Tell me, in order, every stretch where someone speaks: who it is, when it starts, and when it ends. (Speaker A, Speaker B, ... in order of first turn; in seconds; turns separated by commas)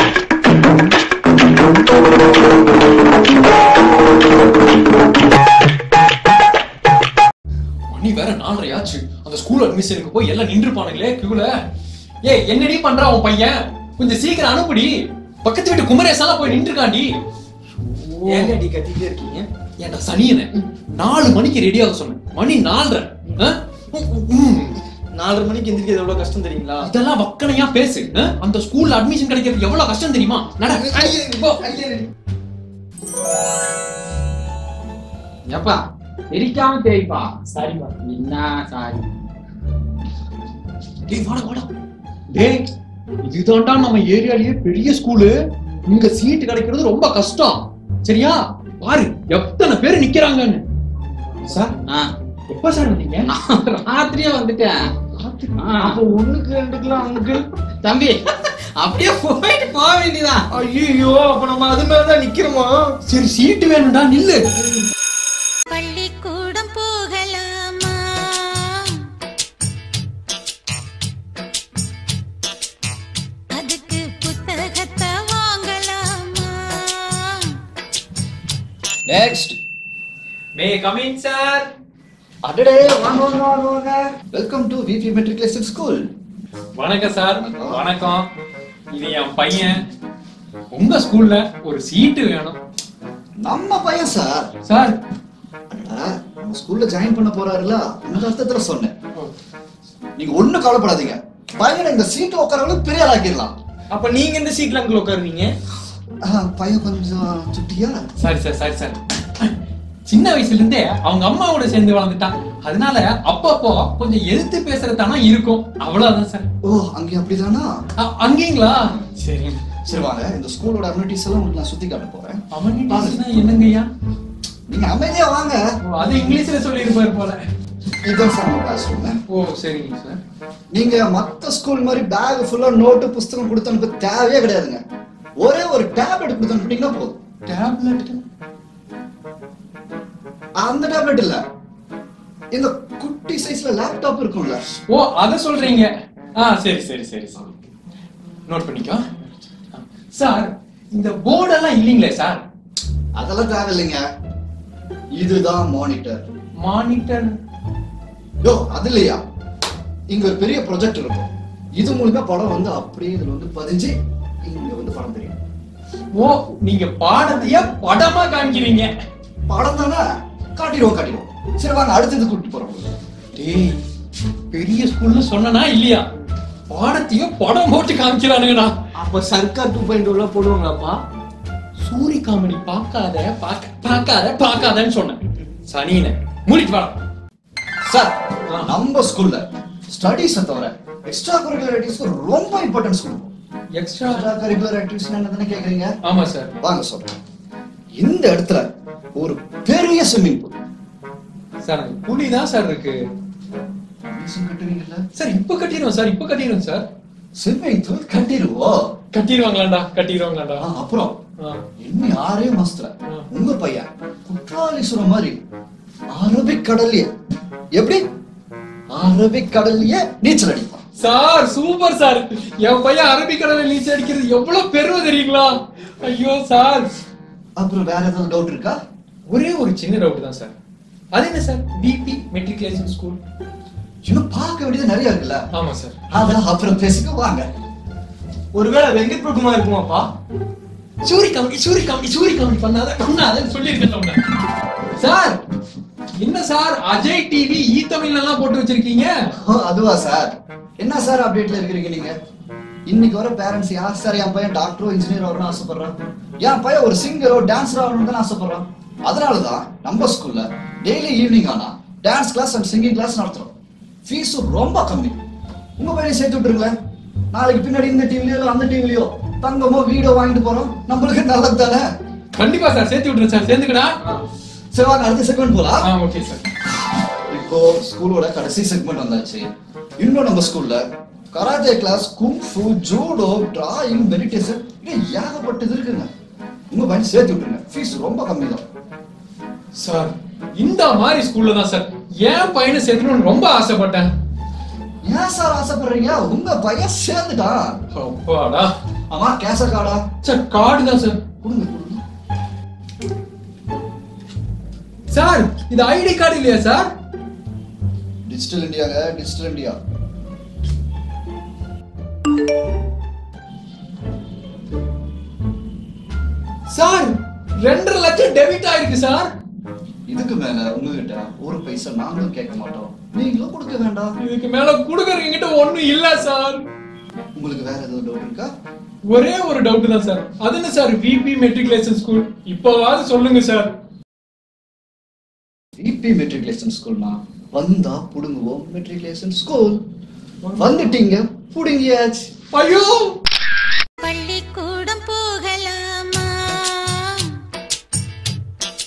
Speaker A: 7.9-11.5, Speaker A: 12.2-17.2, Speaker B: 17.8-19.5, Speaker A: 18.2-18.5, Speaker A: 19.8-24.8, Speaker B: 25.1-26.9, Speaker A: 26.8-32.1, Speaker C: 35.5-39.1, Speaker A: 41.1-41.7, Speaker A: 42.3-42.7, Speaker A: 43.2-50.6, Speaker A: 51.5-51.8, Speaker C: 51.6-52.1, Speaker A: 52.5-53.3, Speaker C: 53.3-54.9, Speaker A: 55.2-55.6, Speaker C: 55.6-56.0, Speaker B: 55.8-57.5, Speaker C: 57.8-60.5, Speaker B: 60.5-62.9, Speaker A: 63.1-64.7, Speaker D: 65.7-69.0, Speaker D: 73.5-77.6, Speaker E: 79.1-79.6, Speaker A: 80.5-81.7, Speaker E: 82.5-86.1, Speaker A: 86.8-88.3, Speaker E: 87.4-87.8, Speaker A: 88.9-89.8, Speaker A: 90.7-92.6, Speaker E: 93.4-94.5, Speaker A: 94.7-95.0, Speaker E: 95.7-98.9, Speaker E: 100.2-103.5, Speaker B: 103.9-105.5, Speaker E: 106.2-108.1, Speaker A: 108.2-109.5, Speaker A: 110.1-116.5, Speaker E: 116.6-117.8, Speaker A: 118.0-119.6, Speaker E: 119.8-123.2, Speaker A: 122.5-123.9, Speaker E: 124.7-126.2, Speaker A: 125.8-127.4, Speaker E: 128.0-129.2, Speaker A: 129.3-130.2, Speaker E: 130.7-134.8, Speaker E: 135.4-137.2, Speaker A: 137.5-138.2, Speaker E: 140.6-141.4, Speaker E: 142.5-144.6, Speaker A: 144.9-147.6, Speaker A: 148.5-149.1, Speaker A: 149.7-152.4, Speaker E: 153.2-154.0, Speaker E: 155.2-156.2, Speaker A: 156.6-157.3, Speaker E: 158.4-159.2, Speaker E: 160.1-165.4, Speaker A: 166.1-168.9, Speaker E: 169.5-170.0, Speaker E: 170.6-172.9, Speaker A: 173.3-173.8, Speaker A: 174.5-176.1, Speaker A: 176.7-178.8, Speaker B: 179.0-181.0, Speaker A: 181.8-187.0, Speaker E: 187.8-193.3, Speaker A: 193.8-194.3, Speaker E: 194.1-195.9, Speaker A: 196.0-196.5, Speaker E: 196.6-197.1, Speaker E: 198.0-200.5, Speaker A: 201.6-203.0, Speaker E: 204.1-205.0, Speaker A: 205.2-206.9, Speaker E: 207.4-208.9, Speaker A: 209.1-210.6, Speaker E: 210.6-211.2, Speaker E: 211.8-215.4, Speaker E: 216.1-217.1, Speaker E: 217.8-218.0, Speaker E: 218.9-220.8, Speaker A: 221.0-226.9, Speaker E: 227.6-228.8, Speaker A: 229.3-230.6, Speaker A: 231.1-233.2, Speaker E: 234.1-235.4, Speaker A: 235.5-236.0, Speaker E: 236.1-237.5, Speaker B: 238.5-240.1, Speaker A: 241.0-244.2, Speaker A: 245.0-245.4, Speaker A: 246.2-249.3, Speaker E: 249.4-252.1, Speaker E: 252.9-263.5, Speaker E: 264.1-265.2, Speaker E: 265.8-266.7, Speaker E: 267.3-271.9, Speaker A: 272.4-273.9, Speaker E: 274.7-275.9, Speaker A: 275.8-276.4, Speaker E: 277.3-279.5, Speaker E: 280.0-286.1, Speaker E: 286.7-288.6, Speaker A: 289.8-294.1, Speaker E: 295.0-297.8, Speaker A: 297.9-298.7, Speaker E: 299.1-300.0, Speaker A: 300.2-301.2, Speaker E: 301.4-302.0, Speaker A: 305.1-306.9, Speaker E: 308.3-309.8, Speaker A: 316.7-319.3, Speaker E: 320.1-324.2, Speaker A: 324.2-326.6, Speaker E: 327.4-328.5, Speaker A: 329.1-333.7, Speaker E: 335.8-339.8, Speaker E: 340.6-342.3, Speaker A: 342.5-343.1, Speaker D: 344.0-347.4